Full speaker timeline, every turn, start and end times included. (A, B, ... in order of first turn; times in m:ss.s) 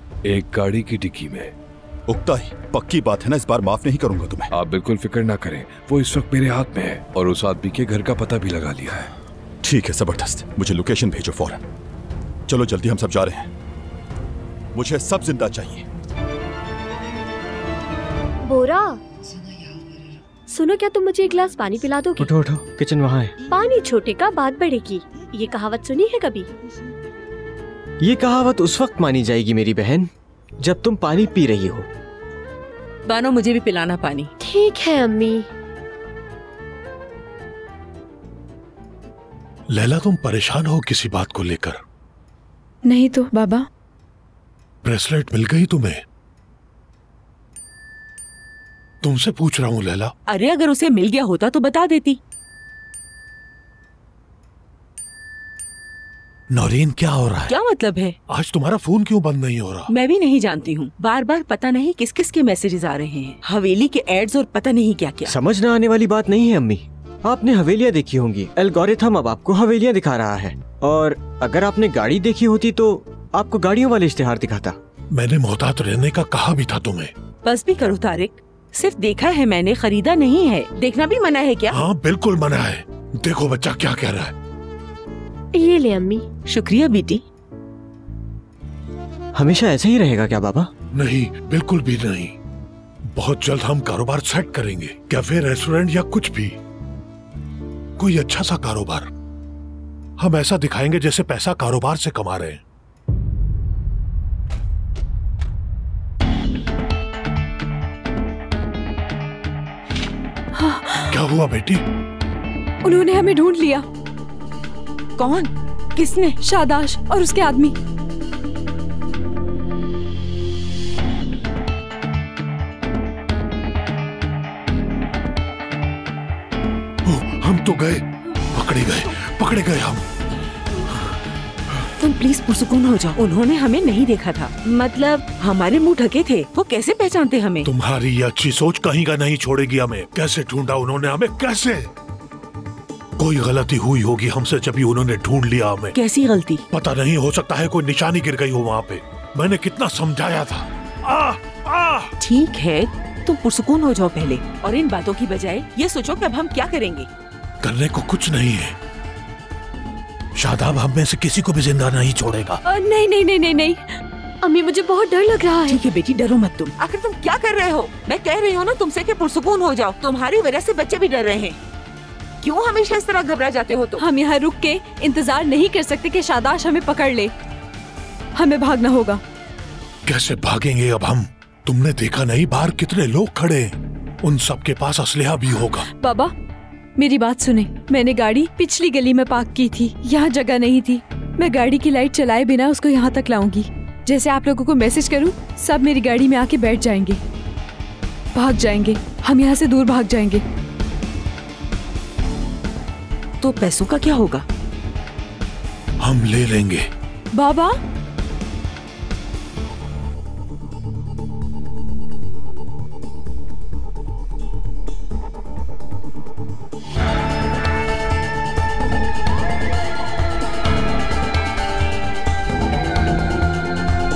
0:00.3-0:01.5 A
0:02.1-0:04.5 B
0:04.5-0:09.1 A
0:09.6-0:11.6 B
0:12.5-0:13.5 B
0:14.7-0:15.9 B
0:18.4-0:19.0 C
0:20.5-0:22.3 C
0:22.2-0:23.4 D
0:23.5-0:26.5 C
0:28.0-0:30.1 D
0:30.6-0:31.9 D
0:33.1-0:34.3 E
0:34.4-0:35.5 C
0:39.7-0:41.8 F
0:42.9-0:43.6 G
0:44.8-0:46.0 F
0:49.0-0:50.1 F
0:50.3-0:52.2 E
0:56.6-0:57.5 F
0:57.5-0:58.2 E
0:58.3-0:59.9 F
0:59.9-1:05.3 E
1:05.2-1:14.8 D
1:15.1-1:17.1 F
1:17.4-1:21.8 E
1:21.7-1:24.3 F
1:25.5-1:26.2 C
1:26.5-1:27.2 E
1:29.4-1:30.7 D
1:30.9-1:32.4 F
1:33.1-1:36.6 F
1:38.0-1:39.1 F
1:40.2-1:42.6 F
1:50.6-1:51.2 G
1:51.1-1:51.8 F
1:52.8-1:53.8 G
1:55.2-1:56.4 E
1:56.4-1:57.8 G
2:07.1-2:10.0 F
2:12.0-2:17.7 E
2:17.7-2:21.9 F
2:23.2-2:25.9 F
2:26.0-2:26.6 E
2:26.8-2:32.1 F
2:32.2-2:37.1 E
2:37.6-2:38.8 F
2:40.4-2:42.6 F
2:42.7-2:43.8 G
2:44.4-2:45.7 C
2:45.7-2:51.6 E
2:52.4-2:54.0 E
2:54.0-2:57.3 G
2:58.4-2:59.2 G
3:00.1-3:05.9 F
3:05.8-3:06.3 G
3:07.0-3:17.2 G
3:18.3-3:20.4 G
3:23.4-3:24.4 E
3:26.0-3:26.9 F
3:27.3-3:27.8 G